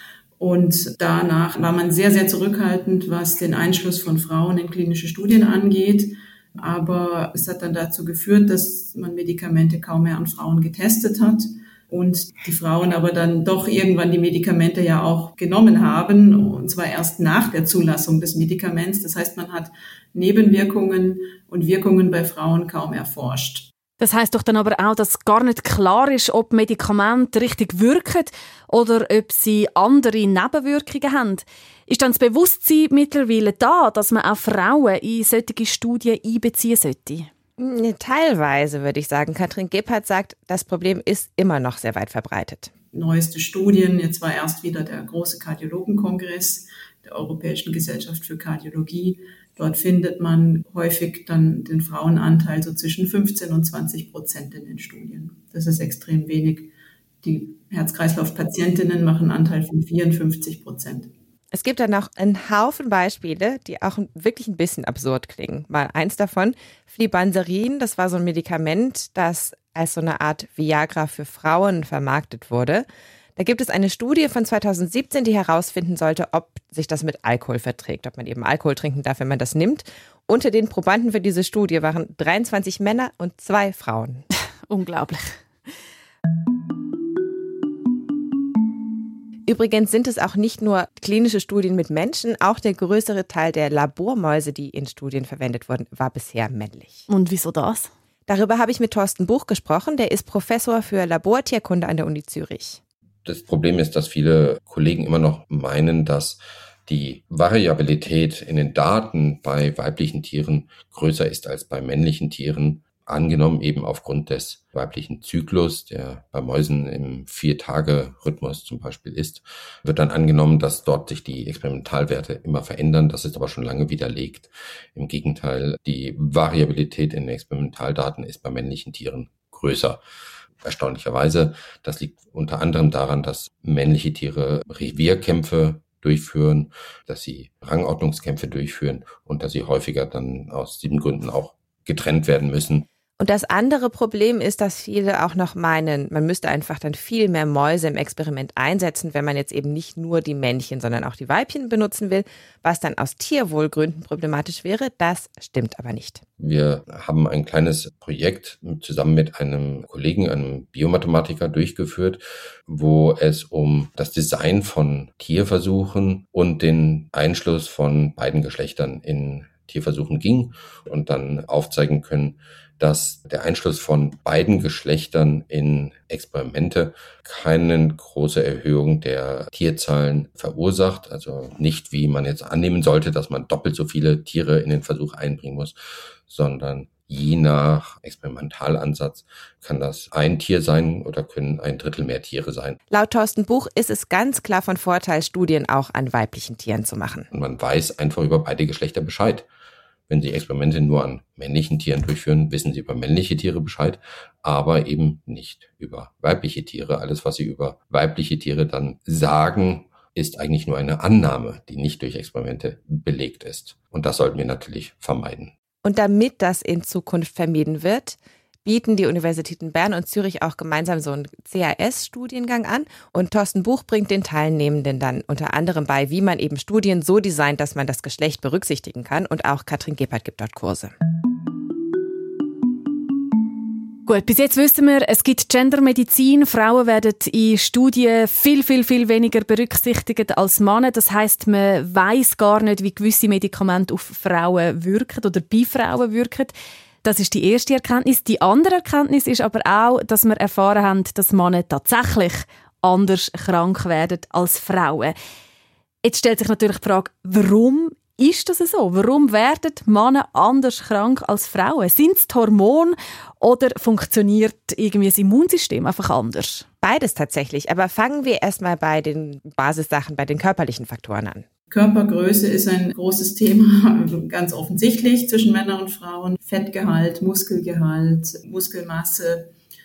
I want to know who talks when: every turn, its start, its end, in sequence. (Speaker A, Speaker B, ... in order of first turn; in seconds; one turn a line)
Speaker A: 0.4-23.7
Speaker B: 24.0-37.3
Speaker C: 37.6-42.7
Speaker A: 42.9-56.7
Speaker A: 57.2-61.1
Speaker C: 61.5-84.2
Speaker B: 84.7-85.4
Speaker C: 89.5-97.1
Speaker B: 97.1-97.9
Speaker C: 98.3-102.8
Speaker D: 103.2-130.0
Speaker D: 130.6-142.9
Speaker C: 143.2-156.2
Speaker D: 156.4-185.8
Speaker D: 186.3-192.8
Speaker C: 192.9-197.3
Speaker D: 197.3-199.5
Speaker D: 200.1-215.5
Speaker C: 215.8-230.9
Speaker B: 234.1-255.2
Speaker B: 256.0-266.6
Speaker C: 266.8-271.5
Speaker A: 271.7-279.5